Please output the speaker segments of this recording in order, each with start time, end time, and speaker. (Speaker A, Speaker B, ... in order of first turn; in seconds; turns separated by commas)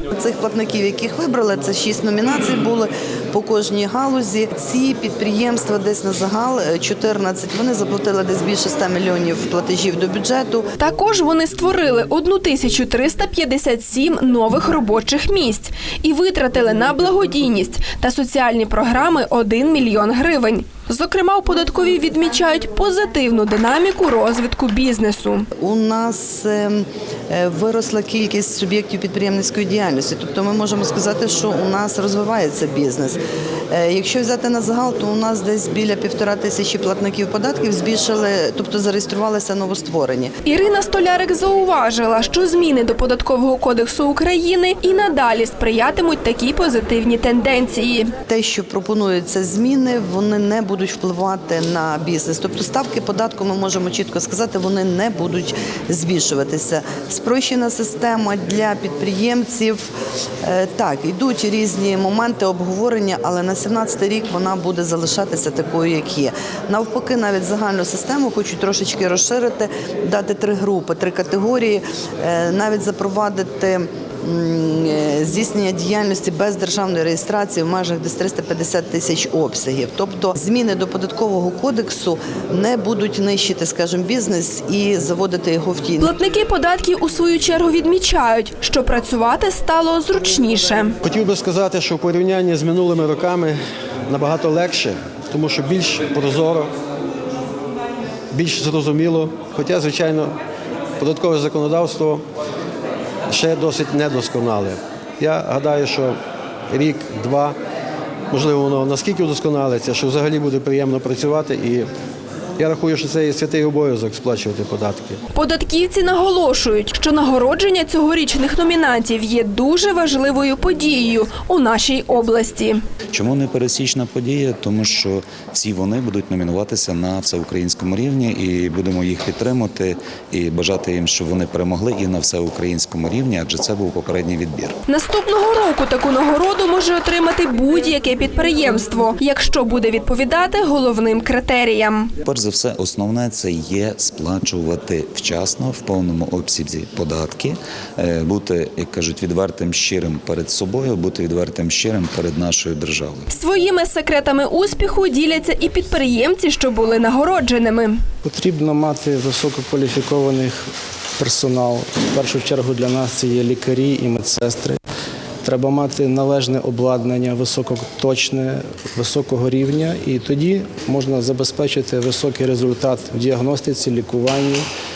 Speaker A: 0.2-10.7, Speaker B: 10.8-25.5, Speaker A: 25.6-33.2, Speaker A: 33.7-40.3, Speaker B: 40.5-48.1, Speaker A: 48.3-59.9, Speaker A: 60.4-86.1, Speaker B: 86.0-91.0, Speaker C: 91.0-96.7, Speaker C: 98.3-100.4, Speaker C: 101.0-102.2, Speaker C: 103.3-106.2, Speaker C: 106.7-107.6, Speaker C: 108.3-111.9, Speaker C: 112.6-115.2, Speaker B: 115.3-122.8, Speaker D: 123.1-134.8, Speaker B: 134.9-142.1, Speaker D: 142.2-153.3, Speaker B: 153.3-158.0, Speaker E: 158.2-160.7, Speaker E: 161.2-164.8, Speaker E: 165.4-174.7